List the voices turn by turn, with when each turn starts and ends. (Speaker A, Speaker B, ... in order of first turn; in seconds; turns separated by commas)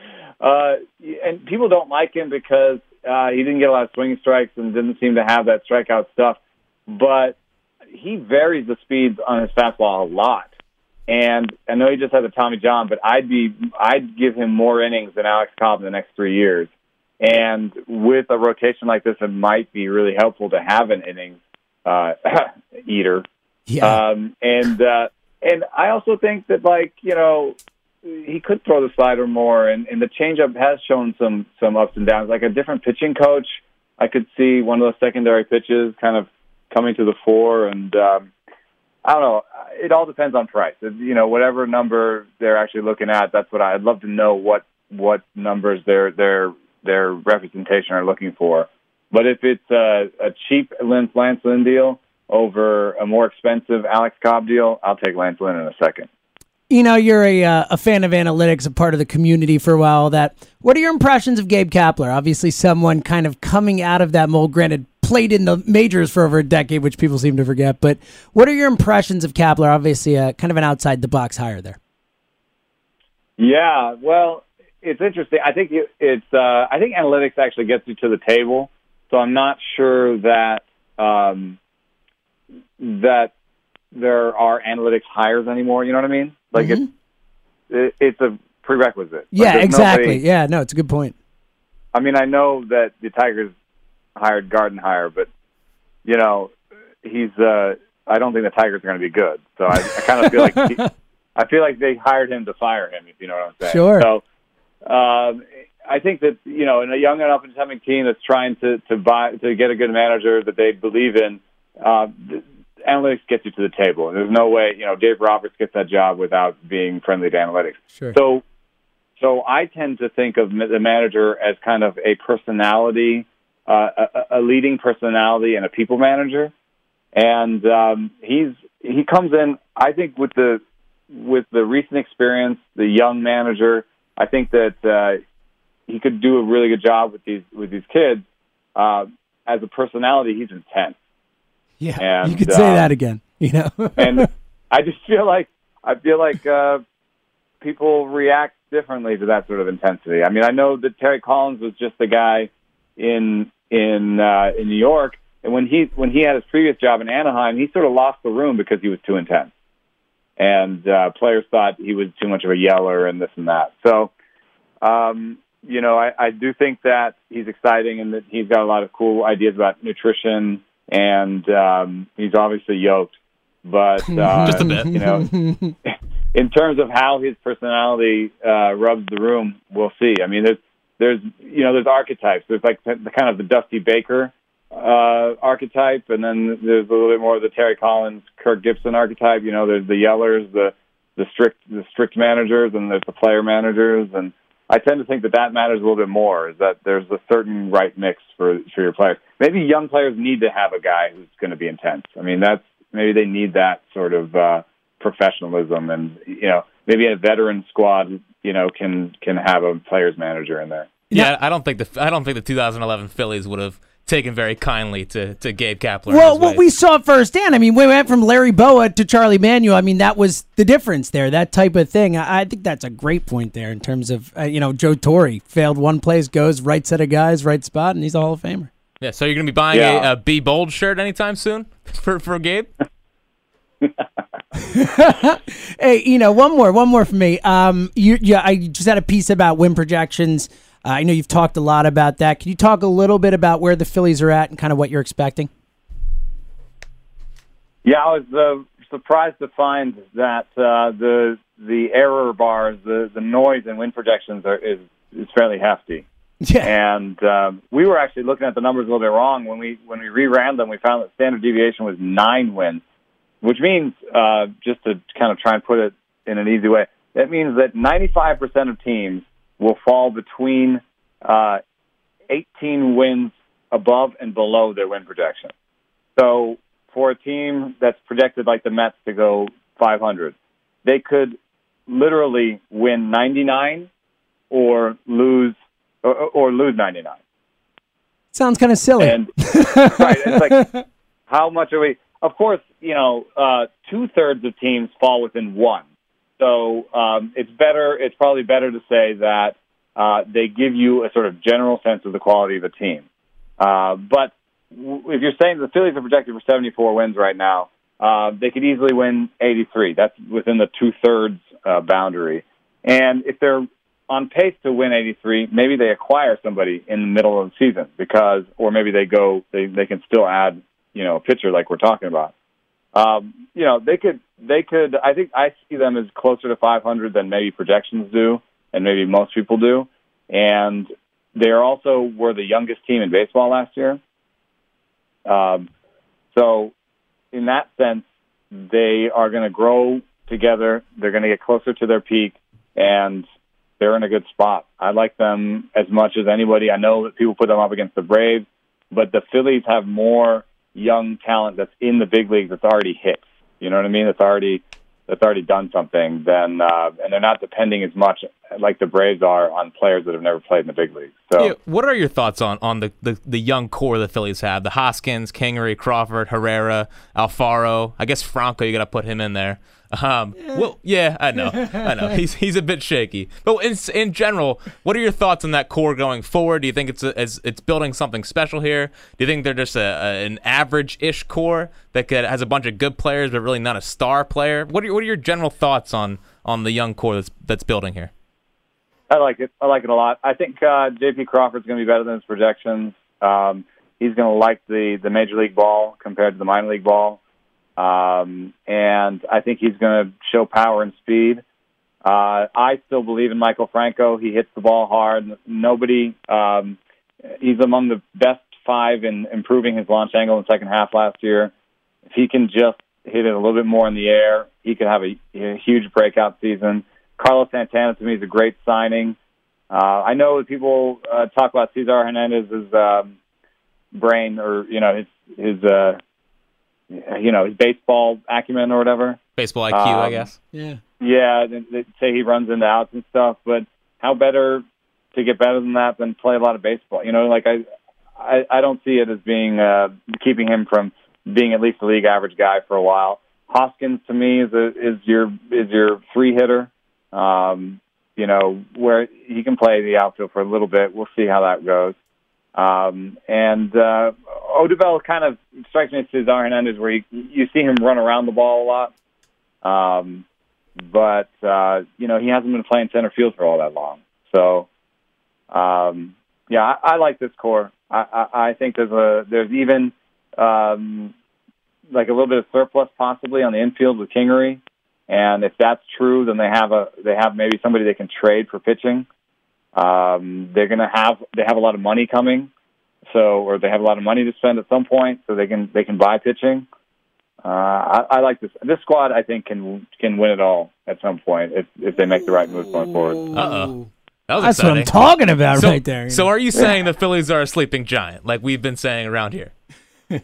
Speaker A: 0.4-7.3, Speaker A: 7.9-10.5, Speaker A: 11.1-23.2, Speaker B: 23.7-24.0, Speaker A: 23.8-38.3, Speaker A: 39.0-56.1, Speaker B: 56.7-71.8, Speaker A: 73.4-81.6, Speaker A: 82.8-83.3, Speaker A: 83.9-86.8, Speaker B: 86.6-86.9, Speaker A: 87.7-90.2, Speaker B: 89.3-91.1, Speaker A: 91.9-93.5, Speaker A: 94.2-95.3, Speaker A: 96.0-100.8, Speaker B: 100.4-100.8, Speaker A: 101.3-104.2, Speaker B: 103.7-104.1, Speaker A: 104.8-118.4, Speaker A: 119.2-126.5, Speaker A: 127.1-135.2, Speaker A: 135.9-138.2, Speaker A: 138.8-140.9, Speaker B: 141.8-144.3, Speaker A: 142.0-142.9, Speaker A: 144.0-146.8, Speaker A: 147.6-159.5, Speaker A: 160.4-164.1, Speaker A: 164.8-173.1, Speaker A: 173.6-210.9, Speaker B: 174.1-175.8, Speaker C: 174.4-174.9, Speaker C: 211.1-216.6, Speaker B: 216.1-228.7, Speaker C: 229.0-232.7, Speaker A: 229.7-230.1, Speaker B: 234.6-245.5, Speaker A: 247.8-256.0, Speaker B: 256.4-256.7, Speaker A: 256.6-262.8, Speaker A: 263.4-271.6, Speaker A: 272.3-275.5, Speaker A: 276.1-281.4, Speaker A: 281.9-283.9, Speaker A: 284.5-287.2, Speaker B: 288.3-290.8, Speaker A: 289.0-290.7, Speaker A: 291.3-295.8, Speaker A: 296.4-303.0, Speaker A: 303.6-322.3, Speaker A: 322.9-334.0, Speaker A: 335.2-335.7, Speaker A: 336.3-336.7, Speaker A: 337.3-343.2, Speaker A: 343.8-361.5, Speaker C: 361.4-388.1, Speaker B: 371.6-371.8, Speaker A: 389.1-397.2, Speaker A: 397.8-401.4, Speaker A: 402.0-406.8, Speaker A: 407.4-411.5, Speaker A: 412.1-419.1, Speaker A: 419.7-423.1, Speaker A: 423.9-426.0, Speaker A: 426.9-429.2, Speaker C: 429.4-430.4, Speaker A: 429.7-430.3, Speaker B: 430.5-430.8, Speaker A: 431.0-437.6, Speaker A: 438.2-451.9, Speaker A: 452.6-458.9, Speaker A: 459.6-460.2, Speaker A: 460.8-464.7, Speaker A: 465.5-471.1, Speaker A: 471.9-479.1, Speaker A: 479.7-482.5, Speaker A: 483.1-486.6, Speaker A: 487.4-493.3, Speaker C: 493.3-493.8, Speaker C: 494.3-494.9, Speaker B: 494.4-496.3, Speaker C: 495.5-499.5